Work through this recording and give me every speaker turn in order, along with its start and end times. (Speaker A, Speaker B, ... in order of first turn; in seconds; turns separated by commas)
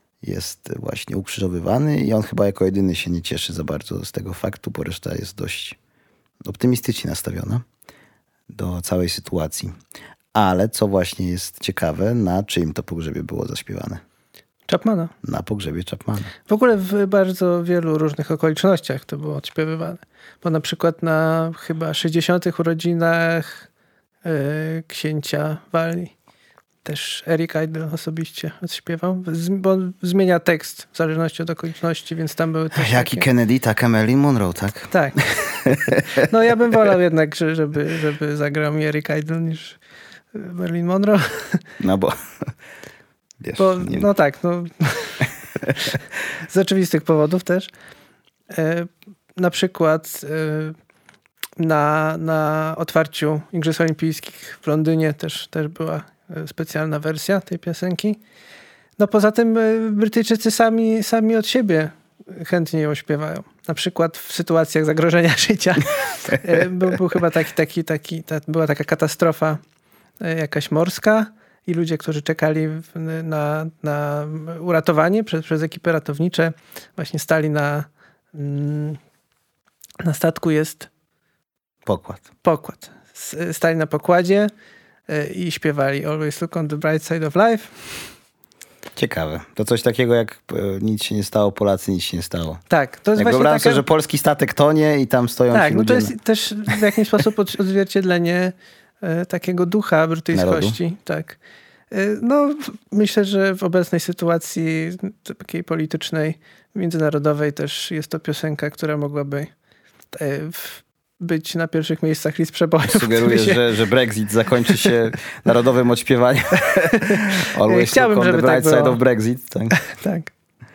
Speaker A: 0.2-5.8, Speaker A: 6.4-7.6, Speaker A: 8.5-9.7, Speaker A: 10.3-14.0, Speaker B: 14.7-15.1, Speaker A: 15.2-16.3, Speaker B: 16.5-23.6, Speaker B: 24.2-26.1, Speaker B: 26.8-33.3, Speaker A: 32.7-34.9, Speaker B: 34.9-39.8, Speaker A: 35.6-35.9, Speaker B: 40.3-41.6, Speaker A: 41.8-42.1, Speaker A: 43.4-44.1, Speaker B: 43.6-45.3, Speaker B: 46.4-47.7, Speaker B: 48.5-50.8, Speaker B: 51.6-58.2, Speaker B: 59.0-69.6, Speaker B: 70.2-79.0, Speaker B: 80.0-80.9, Speaker A: 81.8-82.2, Speaker B: 82.4-84.5, Speaker B: 85.1-87.7, Speaker A: 89.0-92.6, Speaker B: 92.7-93.8, Speaker A: 93.1-96.1, Speaker B: 95.5-101.4, Speaker A: 100.3-100.8, Speaker B: 101.9-109.5, Speaker B: 110.1-113.7, Speaker A: 112.8-119.8, Speaker B: 117.1-119.0, Speaker B: 119.7-120.3